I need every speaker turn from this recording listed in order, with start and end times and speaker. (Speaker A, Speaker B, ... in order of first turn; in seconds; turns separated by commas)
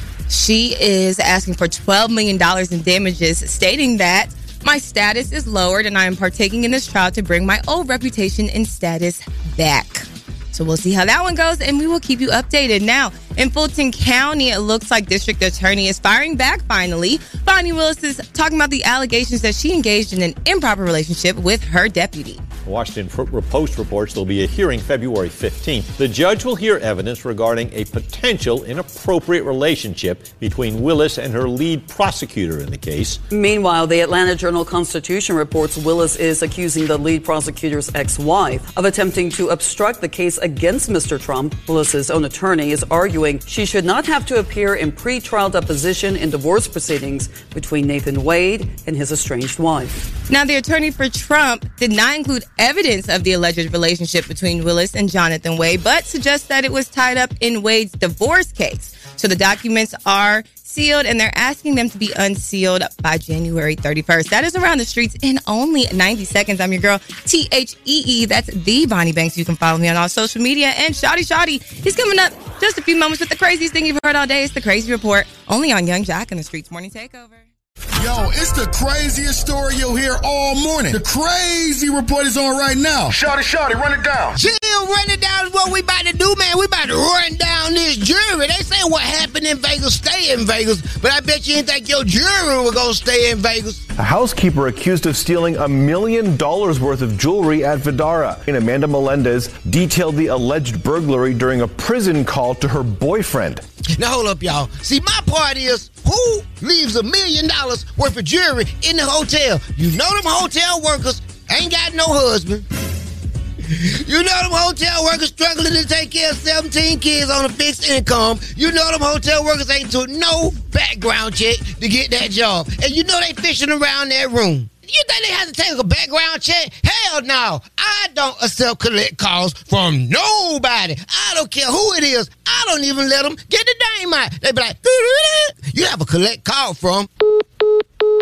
Speaker A: 0.3-22.4, Speaker B: 22.7-33.2, Speaker C: 33.3-50.1, Speaker A: 50.3-77.4, Speaker D: 78.0-84.4, Speaker E: 84.4-93.9, Speaker F: 94.0-103.6, Speaker E: 104.0-112.7, Speaker E: 113.7-137.1